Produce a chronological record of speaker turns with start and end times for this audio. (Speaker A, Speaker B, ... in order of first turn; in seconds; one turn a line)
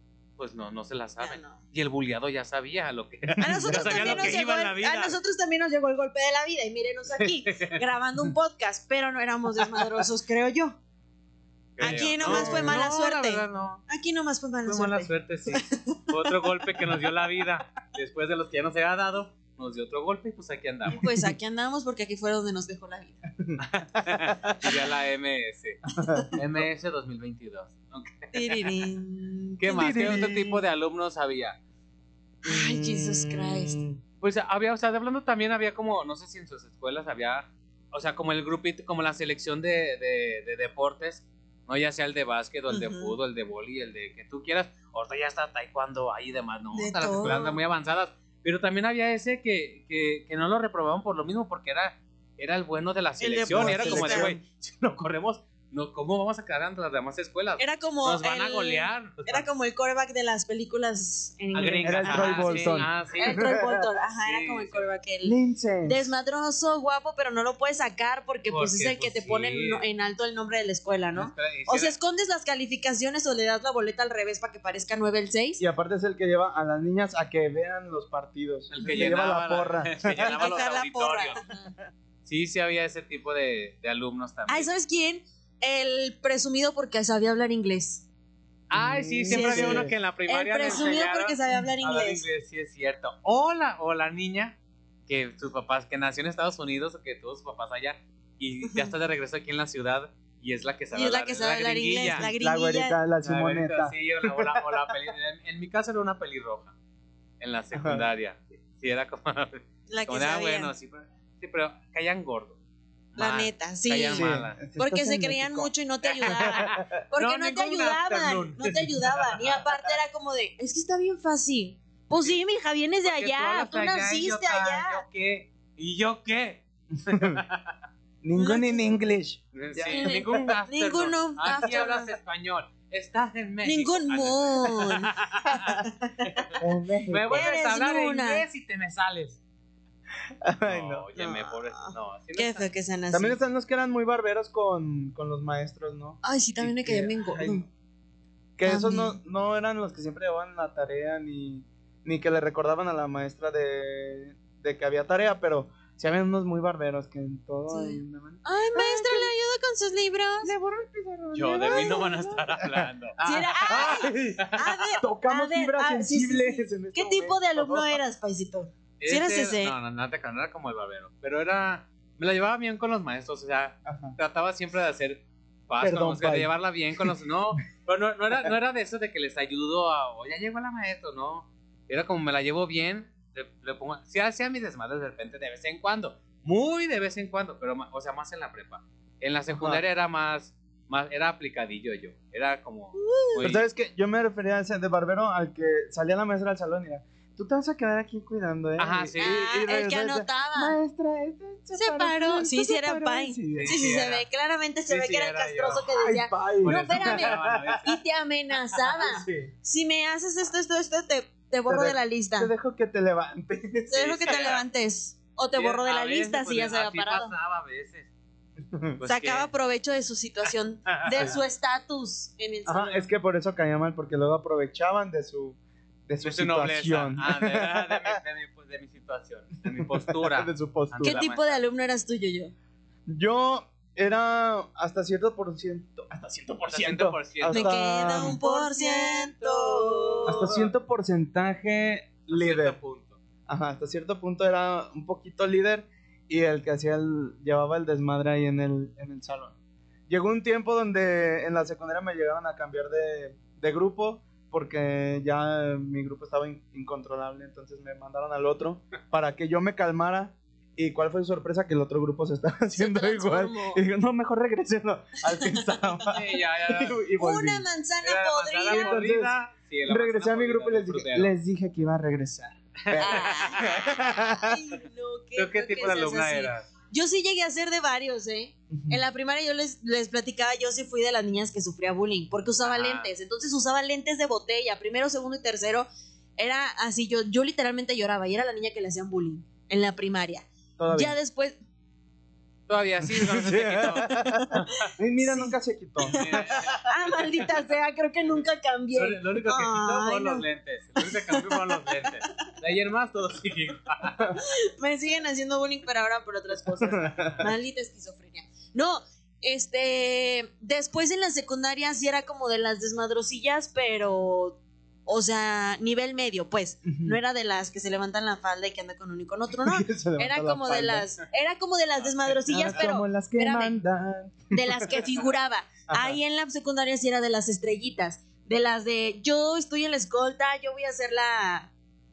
Speaker A: 0.4-5.2
Speaker B: 1.2-1.6
Speaker B: 3.4-10.8
Speaker C: 3.5-4.4
Speaker A: 7.2-7.8
Speaker A: 11.8-13.8
Speaker B: 11.8-16.0
Speaker C: 12.2-12.8
Speaker A: 14.7-21.0
Speaker B: 20.9-23.2
Speaker C: 20.9-21.3
Speaker C: 23.4-24.1
Speaker A: 23.6-28.7
Speaker C: 25.9-26.6
Speaker B: 28.3-30.2
Speaker A: 29.6-31.6
Speaker C: 29.7-30.6
Speaker B: 32.5-33.8
Speaker C: 32.5-34.0
Speaker A: 34.2-59.5
Speaker B: 42.7-43.1
Speaker B: 46.7-47.6
Speaker B: 53.2-54.3
Speaker C: 53.5-54.4
Speaker B: 57.6-75.6
Speaker A: 61.5-63.4
Speaker C: 61.8-63.9
Speaker A: 64.2-64.9
Speaker C: 65.2-66.1
Speaker A: 68.5-69.8
Speaker A: 71.1-72.0
Speaker C: 75.6-80.5
Speaker A: 78.7-81.4
Speaker B: 80.2-81.6
Speaker A: 82.2-84.7
Speaker B: 84.5-88.0
Speaker A: 88.7-102.3
Speaker C: 88.7-89.9
Speaker B: 89.3-92.2
Speaker B: 98.7-98.9
Speaker B: 100.9-103.0
Speaker C: 102.2-104.5
Speaker A: 103.2-106.7
Speaker A: 107.4-112.6
Speaker C: 107.7-108.1
Speaker B: 109.9-110.7
Speaker A: 113.1-114.6
Speaker B: 113.2-125.0
Speaker C: 114.1-115.7
Speaker A: 116.0-119.6
Speaker C: 116.4-116.9
Speaker A: 123.0-127.8
Speaker C: 127.1-127.4
Speaker C: 128.2-130.4
Speaker B: 128.3-128.9
Speaker A: 129.5-139.4
Speaker B: 129.9-132.1
Speaker B: 133.7-136.2
Speaker C: 136.6-137.4
Speaker B: 137.3-138.4
Speaker C: 140.4-141.1
Speaker A: 140.7-142.7
Speaker B: 141.2-143.4
Speaker C: 143.1-147.7
Speaker B: 146.2-147.6
Speaker C: 148.6-159.3
Speaker B: 148.7-149.2
Speaker B: 157.7-160.5
Speaker C: 160.4-162.9
Speaker A: 161.3-164.9
Speaker B: 161.7-162.0
Speaker B: 163.2-169.7
Speaker C: 163.7-168.0
Speaker A: 169.0-193.7
Speaker C: 173.8-174.2
Speaker C: 175.8-177.1
Speaker C: 189.5-189.8
Speaker B: 193.0-193.5
Speaker C: 193.4-203.8
Speaker A: 198.8-199.5
Speaker B: 199.2-200.8
Speaker B: 201.8-212.5
Speaker A: 203.5-204.3
Speaker A: 204.9-206.0
Speaker C: 206.0-207.8
Speaker A: 206.6-208.0
Speaker C: 209.0-209.5
Speaker C: 211.7-214.3
Speaker B: 213.9-217.3
Speaker A: 213.9-214.7
Speaker A: 215.6-218.1
Speaker C: 218.7-219.0
Speaker A: 219.0-219.5
Speaker B: 219.1-223.1
Speaker A: 220.9-221.4
Speaker C: 222.7-228.2
Speaker A: 226.2-231.6
Speaker C: 229.7-231.2
Speaker B: 231.0-232.5
Speaker C: 233.1-238.4
Speaker A: 236.7-240.7
Speaker B: 237.5-240.5
Speaker C: 240.3-242.8
Speaker A: 242.3-243.2
Speaker C: 243.5-249.6
Speaker C: 250.1-267.7
Speaker B: 262.7-263.8
Speaker B: 265.3-265.7
Speaker A: 266.1-267.0
Speaker B: 267.2-269.0
Speaker A: 268.0-271.4
Speaker C: 268.7-269.4
Speaker C: 269.9-274.6
Speaker A: 272.8-274.2
Speaker B: 273.0-291.6
Speaker A: 275.4-276.7
Speaker C: 278.7-279.0
Speaker A: 282.6-283.1
Speaker C: 290.8-291.2
Speaker A: 292.7-294.9
Speaker C: 293.1-296.7
Speaker B: 295.2-300.4
Speaker A: 296.1-297.4
Speaker A: 298.9-304.4
Speaker B: 301.0-301.6
Speaker B: 304.8-323.8
Speaker C: 306.8-307.4
Speaker C: 316.9-317.2
Speaker C: 319.6-321.1
Speaker C: 322.5-325.0
Speaker B: 324.5-331.7
Speaker C: 325.9-326.2